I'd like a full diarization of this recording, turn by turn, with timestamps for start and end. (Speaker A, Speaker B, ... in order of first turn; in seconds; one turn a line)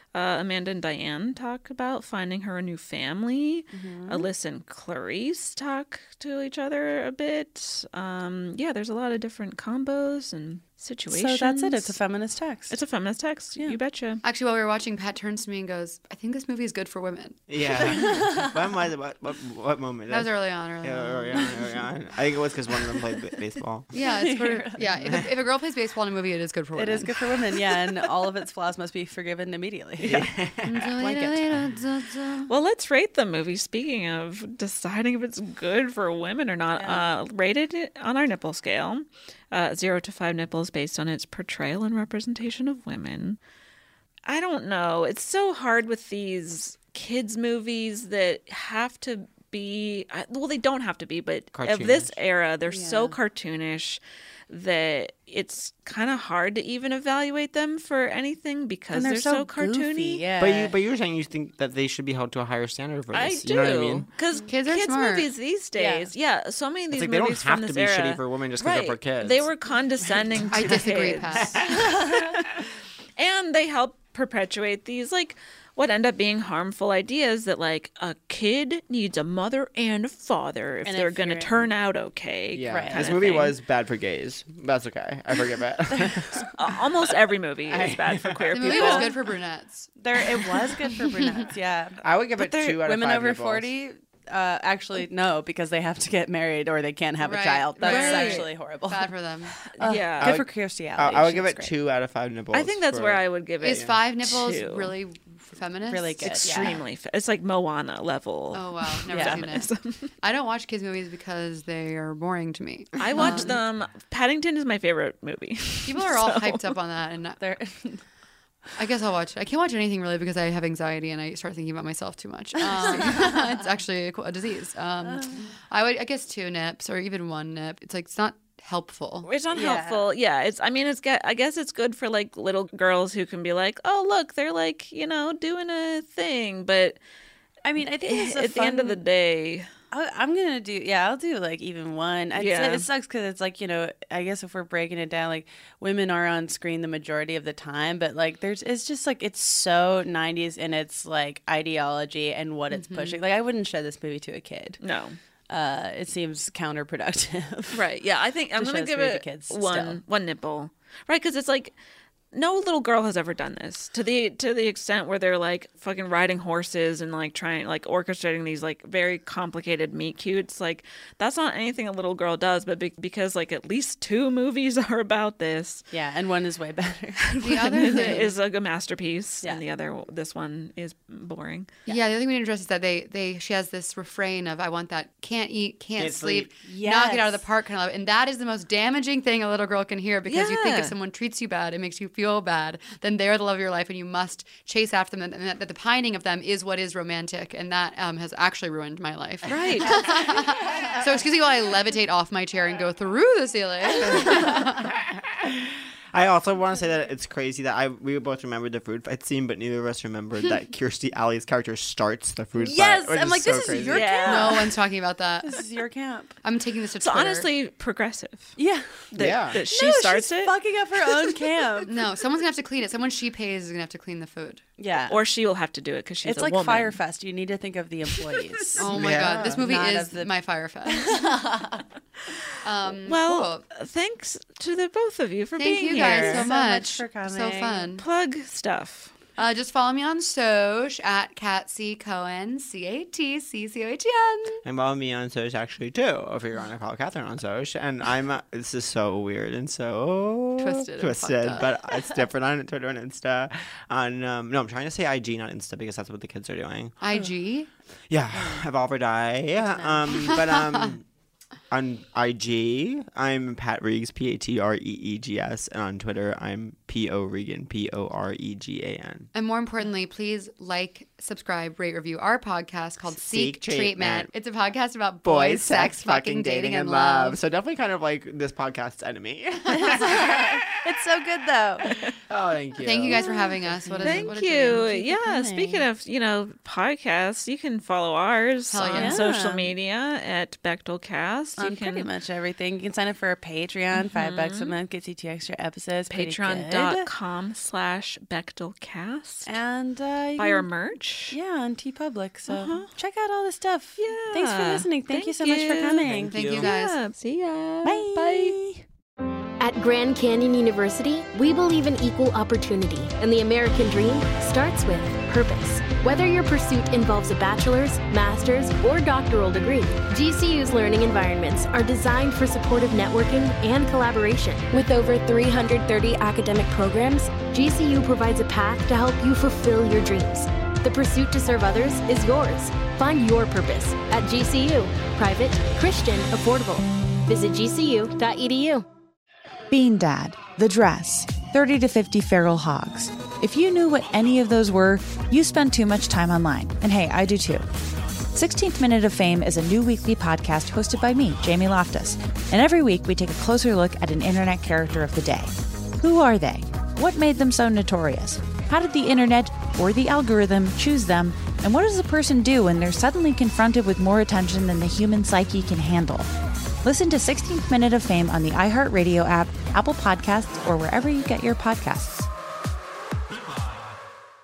Speaker A: 0.1-12.0
Speaker B: 3.7-4.3
Speaker B: 11.1-12.8
Speaker A: 12.7-14.2
Speaker C: 14.2-17.4
Speaker D: 17.5-23.9
Speaker B: 17.8-18.6
Speaker C: 20.1-21.7
Speaker C: 23.9-27.2
Speaker B: 23.9-25.0
Speaker D: 24.8-25.3
Speaker B: 26.8-30.3
Speaker D: 30.0-30.8
Speaker C: 30.6-32.5
Speaker B: 30.9-31.5
Speaker A: 32.5-43.4
Speaker B: 36.8-37.2
Speaker A: 44.3-60.2
Speaker D: 51.5-52.1
Speaker B: 52.7-53.2
Speaker B: 58.9-60.8
Speaker D: 60.4-64.1
Speaker A: 63.1-83.6
Speaker C: 64.5-65.3
Speaker B: 65.8-66.1
Speaker D: 66.9-69.5
Speaker C: 70.5-71.6
Speaker B: 71.6-72.3
Speaker B: 80.8-81.7
Speaker D: 82.5-87.0
Speaker B: 82.7-83.2
Speaker B: 85.9-86.5
Speaker A: 86.5-89.1
Speaker D: 87.7-89.0
Speaker C: 88.5-89.9
Speaker B: 88.7-89.1
Speaker B: 90.0-92.0
Speaker D: 92.0-93.7
Speaker A: 92.4-92.8
Speaker B: 92.6-99.1
Speaker C: 97.2-99.7
Speaker A: 97.8-98.5
Speaker B: 99.7-101.8
Speaker A: 99.7-100.4
Speaker D: 100.2-103.2
Speaker A: 102.5-105.0
Speaker C: 103.6-106.7
Speaker B: 105.9-106.8
Speaker A: 106.2-110.1
Speaker C: 108.5-109.7
Speaker B: 109.1-109.4
Speaker C: 110.2-113.6
Speaker A: 113.0-116.7
Speaker B: 113.1-113.5
Speaker C: 115.9-117.4
Speaker B: 117.4-118.0
Speaker C: 118.8-129.3
Speaker B: 122.6-123.6
Speaker B: 125.0-125.5
Speaker A: 129.2-137.0
Speaker B: 129.5-130.1
Speaker B: 137.6-139.0
Speaker A: 138.0-139.7
Speaker B: 139.9-154.8
Speaker A: 142.3-142.9
Speaker C: 152.7-153.2
Speaker A: 154.8-155.2
Speaker B: 155.5-157.8
Speaker A: 157.7-161.7
Speaker B: 158.6-160.0
Speaker A: 162.3-175.8
Speaker B: 175.9-178.3
Speaker A: 177.2-181.8
Speaker C: 177.4-178.3
Speaker C: 181.9-204.9
Speaker D: 186.0-186.5
Speaker B: 186.6-187.4
Speaker A: 190.3-190.9
Speaker A: 199.5-199.9
Speaker D: 205.1-214.2
Speaker B: 212.6-214.8
Speaker A: 213.8-214.7
Speaker C: 214.2-215.6
Speaker B: 215.4-216.4
Speaker C: 216.4-217.5
Speaker A: 217.0-218.6
Speaker B: 218.6-221.9
Speaker A: 219.1-220.6
Speaker D: 219.2-219.6
Speaker A: 221.1-221.5
Speaker C: 221.9-224.6
Speaker B: 224.8-225.2
Speaker A: 225.1-227.0
Speaker B: 226.2-230.3
Speaker A: 228.2-228.7
Speaker C: 228.8-231.6
Speaker D: 228.9-229.6
Speaker B: 230.9-231.8
Speaker C: 232.6-233.6
Speaker A: 233.0-236.5
Speaker C: 235.6-238.0
Speaker B: 235.8-238.0
Speaker A: 238.0-239.2
Speaker C: 239.4-244.6
Speaker D: 244.6-257.0
Speaker C: 250.6-251.8
Speaker C: 257.0-257.7
Speaker D: 258.1-261.0
Speaker B: 259.6-260.1
Speaker C: 260.1-260.9
Speaker D: 261.7-269.3
Speaker C: 269.3-277.4
Speaker D: 273.1-274.3
Speaker D: 275.2-280.5
Speaker B: 279.7-281.9
Speaker D: 282.3-283.3
Speaker C: 282.8-284.9
Speaker B: 283.1-285.9
Speaker A: 284.0-292.1
Speaker C: 288.7-289.2
Speaker B: 288.9-289.7
Speaker B: 291.6-297.1
Speaker A: 293.9-294.7
Speaker A: 296.1-299.6
Speaker B: 299.5-300.7
Speaker A: 300.4-301.4
Speaker B: 301.3-306.4
Speaker A: 302.5-302.9
Speaker A: 304.0-308.6
Speaker D: 306.0-306.7
Speaker C: 306.3-307.0
Speaker B: 307.9-308.6
Speaker E: 307.9-308.5
Speaker F: 309.6-338.9
Speaker E: 339.7-347.7
Speaker E: 348.3-366.3
Speaker E: 366.8-372.3